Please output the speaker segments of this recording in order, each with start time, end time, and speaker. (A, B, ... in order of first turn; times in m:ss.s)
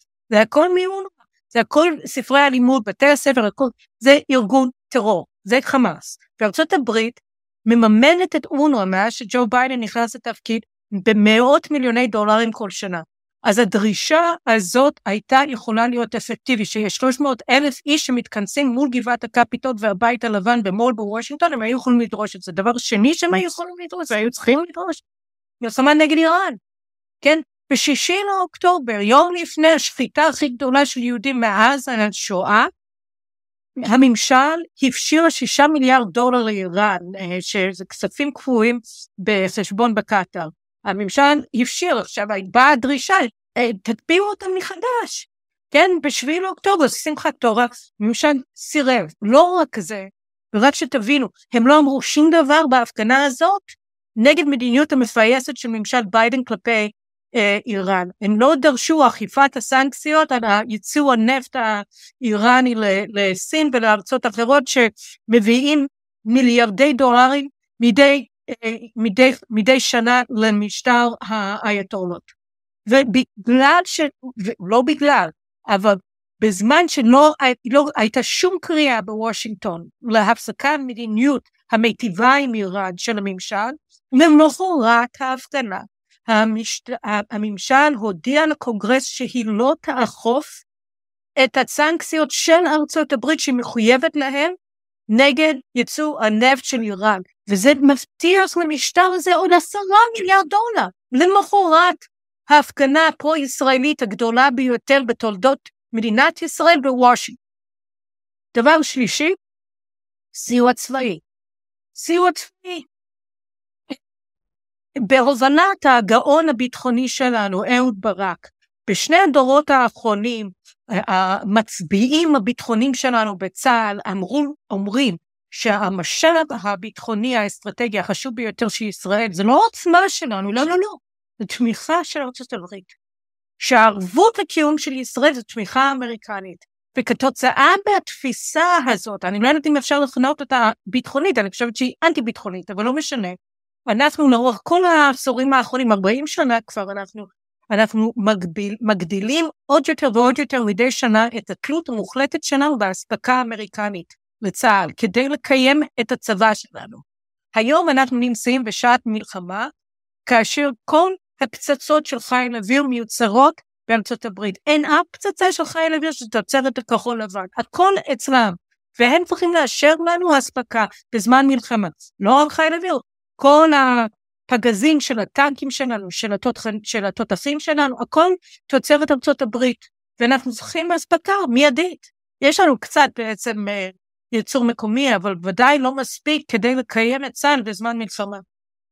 0:00.3-0:25.0 A
0:25.6-0:26.6 A
0:27.2-0:32.7 A
0:33.8-1:12.3 A
1:12.8-1:30.6 A
1:31.4-1:34.5 A
1:35.1-1:47.4 A
1:48.5-1:49.4 A
1:50.3-1:51.2 A
1:51.9-1:52.8 A
1:55.0-2:12.9 A
2:13.6-2:39.7 A
2:40.2-3:08.4 A